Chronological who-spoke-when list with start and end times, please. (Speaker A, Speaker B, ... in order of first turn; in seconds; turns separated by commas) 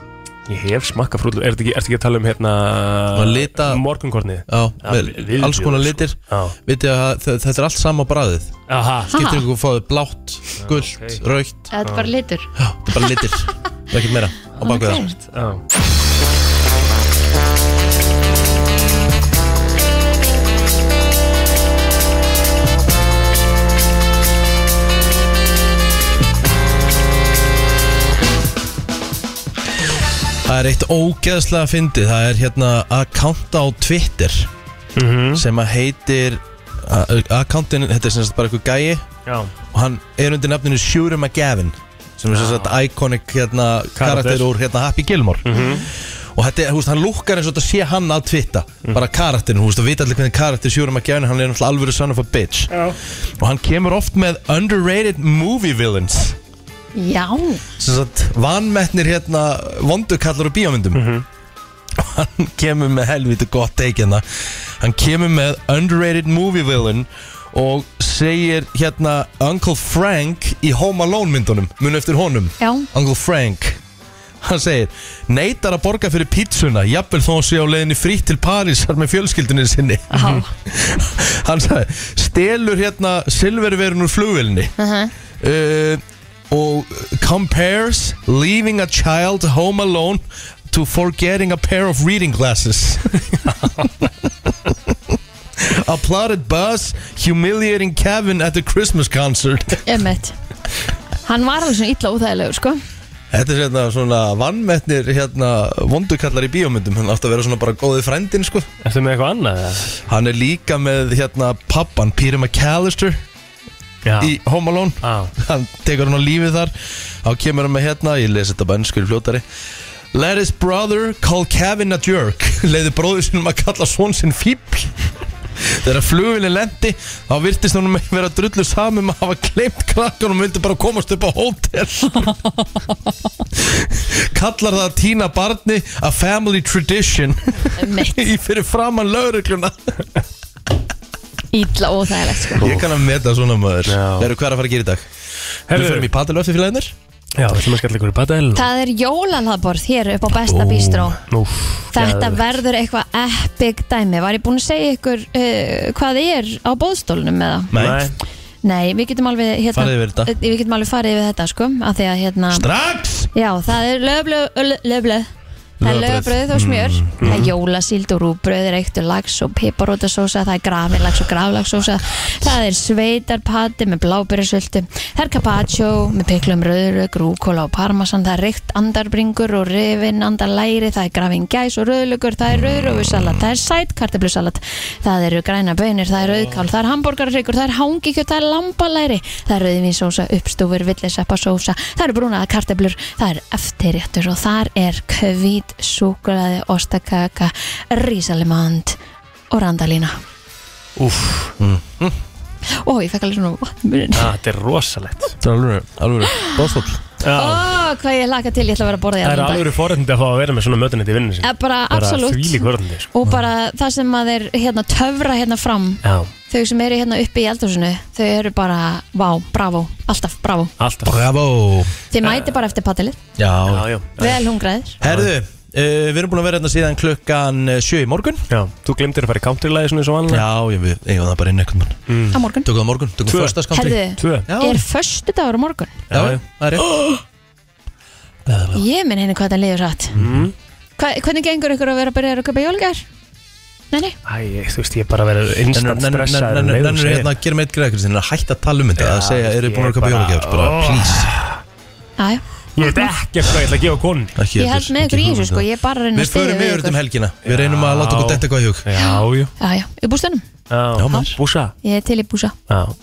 Speaker A: 0.5-6.5, Speaker B: 3.1-3.8, Speaker B: 4.5-8.6, Speaker A: 8.7-9.1, Speaker C: 9.1-9.4, Speaker B: 9.1-11.7, Speaker A: 10.6-11.2, Speaker C: 11.7-13.2, Speaker A: 11.8-12.1, Speaker B: 12.6-15.1, Speaker C: 14.6-15.1, Speaker A: 15.3-15.6, Speaker B: 30.4-34.5, Speaker A: 35.0-35.4, Speaker B: 35.3-39.0, Speaker A: 39.2-39.5, Speaker B: 39.7-56.4, Speaker A: 42.3-42.7, Speaker A: 44.0-44.5, Speaker A: 45.4-45.8, Speaker C: 45.5-45.8, Speaker C: 56.9-57.6, Speaker B: 57.8-61.2, Speaker A: 60.9-61.2, Speaker B: 62.0-73.8, Speaker C: 72.6-72.9, Speaker B: 74.4-84.7, Speaker C: 80.1-80.5, Speaker C: 84.8-85.1, Speaker B: 85.4-93.3, Speaker B: 94.5-99.8, Speaker C: 99.8-100.3, Speaker C: 101.2-102.8, Speaker B: 103.3-108.7, Speaker A: 108.8-109.9, Speaker B: 110.1-113.2, Speaker A: 114.0-114.3, Speaker B: 114.2-119.4, Speaker A: 115.0-115.3, Speaker B: 120.1-125.0, Speaker B: 125.6-132.3, Speaker B: 133.6-140.0, Speaker C: 137.8-138.3, Speaker C: 141.5-142.6, Speaker B: 142.6-145.1, Speaker A: 143.9-144.3, Speaker A: 145.7-146.1, Speaker B: 145.7-146.9, Speaker A: 147.4-148.7, Speaker C: 148.5-151.2, Speaker B: 150.3-151.2, Speaker A: 151.3-152.6, Speaker C: 151.9-157.7, Speaker B: 157.7-158.1, Speaker A: 157.7-158.1, Speaker C: 158.6-162.7, Speaker B: 159.7-160.3, Speaker B: 162.5-163.3, Speaker C: 163.3-165.3, Speaker B: 165.8-167.5, Speaker C: 165.8-199.0, Speaker A: 167.2-167.5, Speaker B: 182.7-183.4, Speaker C: 199.5-200.2, Speaker A: 201.0-201.5, Speaker B: 201.6-202.2, Speaker C: 202.8-204.3, Speaker A: 204.1-205.3, Speaker B: 205.4-207.0, Speaker C: 206.3-206.7, Speaker A: 207.2-207.7, Speaker C: 207.3-209.7, Speaker A: 209.2-213.1, Speaker C: 211.4-220.7, Speaker A: 216.0-216.3, Speaker A: 220.8-221.2, Speaker B: 221.0-221.9, Speaker C: 222.1-223.2, Speaker A: 222.2-222.5, Speaker B: 223.4-223.9, Speaker A: 223.7-224.4, Speaker C: 224.2-225.0, Speaker B: 225.0-228.4, Speaker A: 225.0-225.3, Speaker A: 228.5-230.4, Speaker B: 230.3-232.1, Speaker A: 232.1-232.4, Speaker C: 232.3-232.7, Speaker B: 232.6-234.8, Speaker A: 233.3-233.6, Speaker C: 233.7-236.0, Speaker A: 234.2-234.5, Speaker A: 236.1-236.4, Speaker B: 236.1-237.2, Speaker B: 238.4-238.8, Speaker C: 238.7-240.1, Speaker B: 240.1-240.5, Speaker A: 240.2-240.5, Speaker C: 241.0-243.0, Speaker A: 244.2-247.3, Speaker B: 245.7-251.3, Speaker A: 249.0-251.6, Speaker C: 252.2-253.1, Speaker A: 252.8-254.4, Speaker B: 254.3-258.9, Speaker C: 254.6-257.0, Speaker A: 257.4-259.5, Speaker C: 259.0-260.4, Speaker A: 260.7-261.7, Speaker B: 260.9-261.4, Speaker C: 261.8-262.5, Speaker A: 262.7-262.9